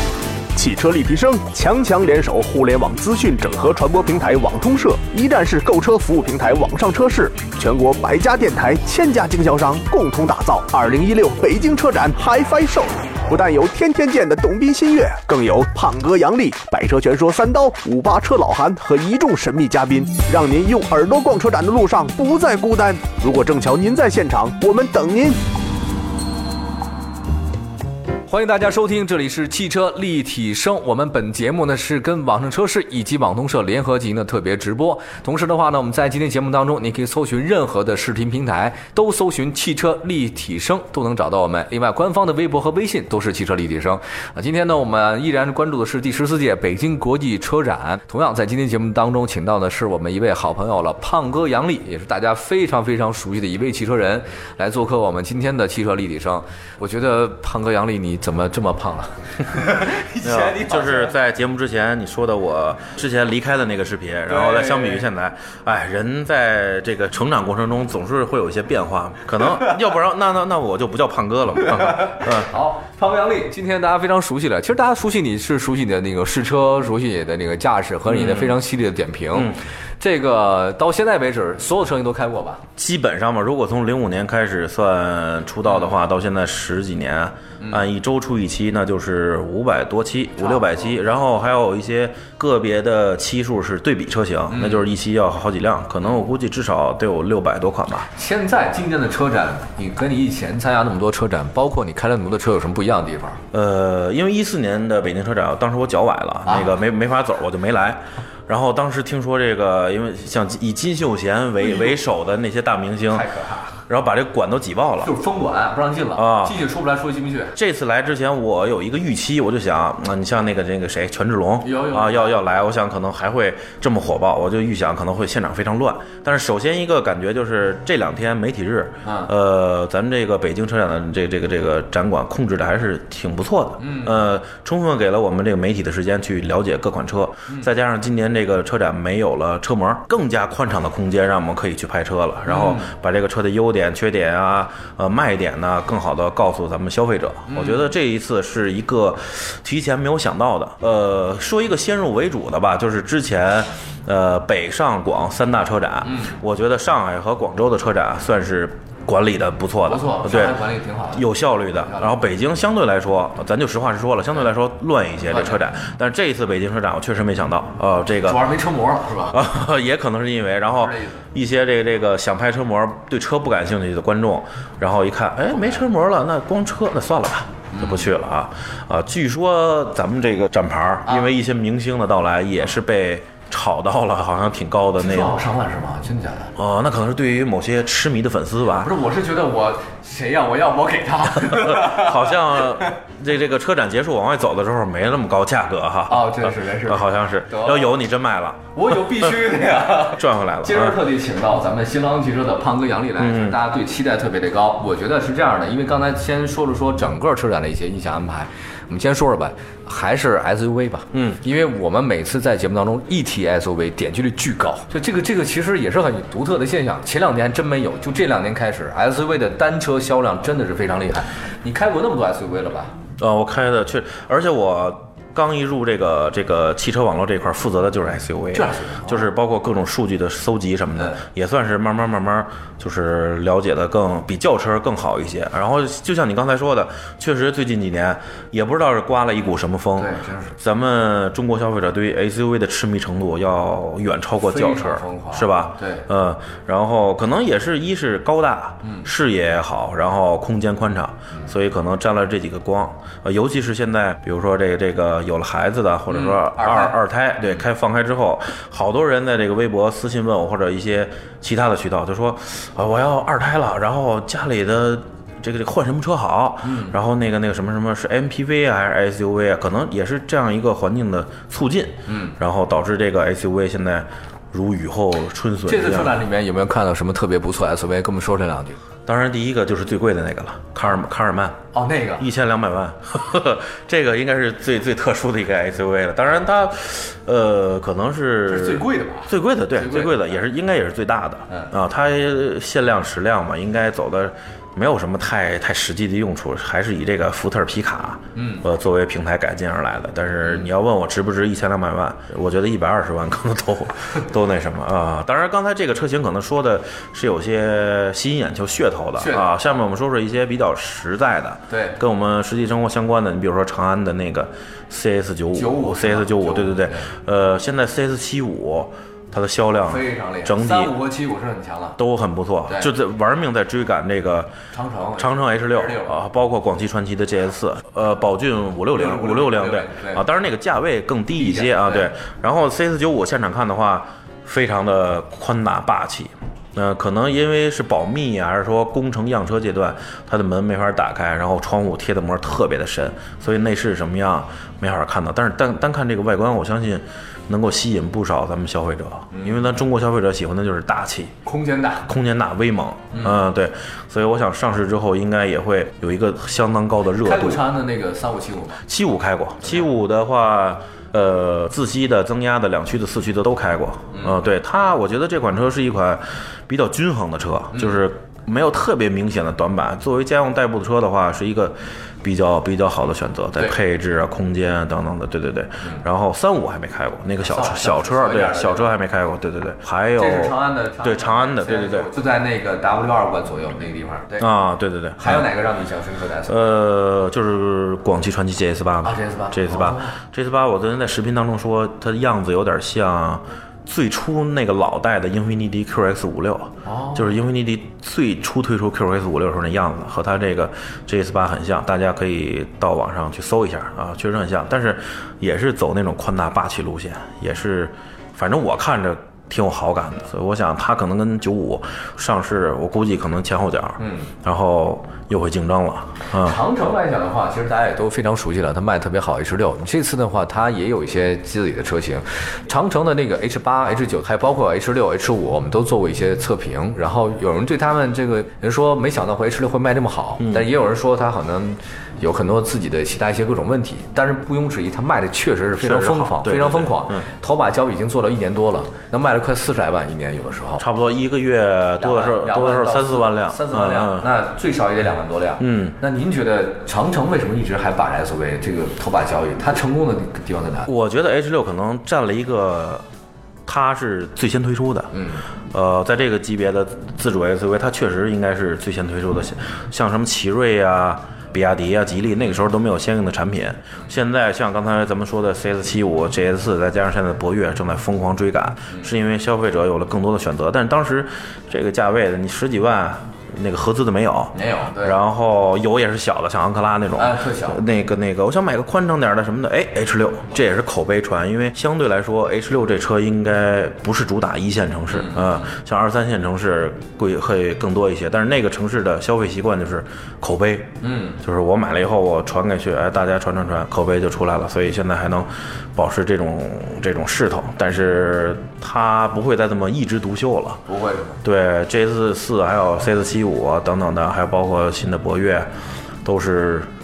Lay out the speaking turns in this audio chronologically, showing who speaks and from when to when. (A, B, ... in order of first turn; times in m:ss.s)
0:00.6-0:25.4 A
0:28.3-1:01.1 B
1:00.2-1:12.5 C
1:04.3-1:05.0 B
1:11.9-1:22.6 B
1:18.1-1:18.6 C
1:22.8-1:38.1 C
1:30.5-1:30.9 B
1:34.5-1:34.9 B
1:38.1-1:43.4 B
1:43.5-1:53.3 C
1:46.5-1:46.7 B
1:53.1-1:53.8 B
1:53.9-1:55.1 C
1:55.0-1:57.6 B
1:56.1-1:56.6 C
1:57.5-2:48.5 C
2:01.6-2:02.5 B
2:09.0-2:09.3 B
2:13.8-2:14.2 B
2:22.5-2:22.9 B
2:27.5-2:27.9 B
2:36.0-2:36.3 B
2:39.8-2:41.3 B
2:41.9-2:42.1 B
2:45.3-2:45.6 B
2:48.2-2:49.4 B
2:49.3-3:05.4 C
2:50.8-2:51.2 B
2:57.7-2:58.1 B
3:05.0-3:06.5 B
3:06.6-3:08.9 C
3:08.8-3:13.0 B
3:11.5-3:21.0 C
3:16.1-3:17.9 B
3:18.8-3:42.9 B
3:23.2-3:23.6 C
3:31.1-3:31.4 C
3:43.2-4:36.2 C
3:48.5-3:49.3 B
4:00.0-4:00.6 B
4:04.4-4:06.0 B
4:16.1-4:17.0 B
4:26.6-4:26.9 B
4:32.1-4:32.3 B
4:35.7-4:38.8 B
4:39.1-4:41.6 C
4:41.7-4:42.3 B
4:42.2-5:21.0 C
4:48.5-4:50.2 B
4:58.4-4:58.6 B
5:09.2-5:09.5 B
5:11.7-5:12.0 B
5:15.5-5:17.1 B
5:19.9-5:22.0 B
5:22.0-5:24.5 C
5:24.7-5:26.2 B
5:25.2-5:51.3 C
5:28.9-5:30.2 B
5:31.4-5:32.1 B
5:49.3-5:49.6 B
5:51.4-5:52.1 B
5:52.0-5:57.6 C
5:57.2-5:58.8 B
5:58.8-6:22.1 C
6:17.4-6:18.9 B
6:20.2-6:24.5 B
6:24.4-6:25.5 C
6:25.2-6:26.6 B
6:26.5-6:56.6 C
6:29.0-6:30.2 B
6:36.9-6:37.3 B
6:54.0-6:54.3 B
6:56.3-7:20.8 B
7:10.4-7:10.7 C
7:15.8-7:17.3 C
7:20.8-7:24.3 C
7:22.0-7:30.9 B
7:25.6-7:26.0 C
7:30.9-7:33.0 C
7:33.7-7:35.1 C
7:35.1-7:35.4 B
7:35.7-8:10.9 C
7:54.5-7:55.2 B
7:57.2-7:57.8 B
8:05.1-8:05.5 B
8:11.0-8:11.4 B
8:11.4-8:20.8 C
8:20.9-8:21.4 B
8:21.4-8:25.7 C
8:26.2-8:26.9 C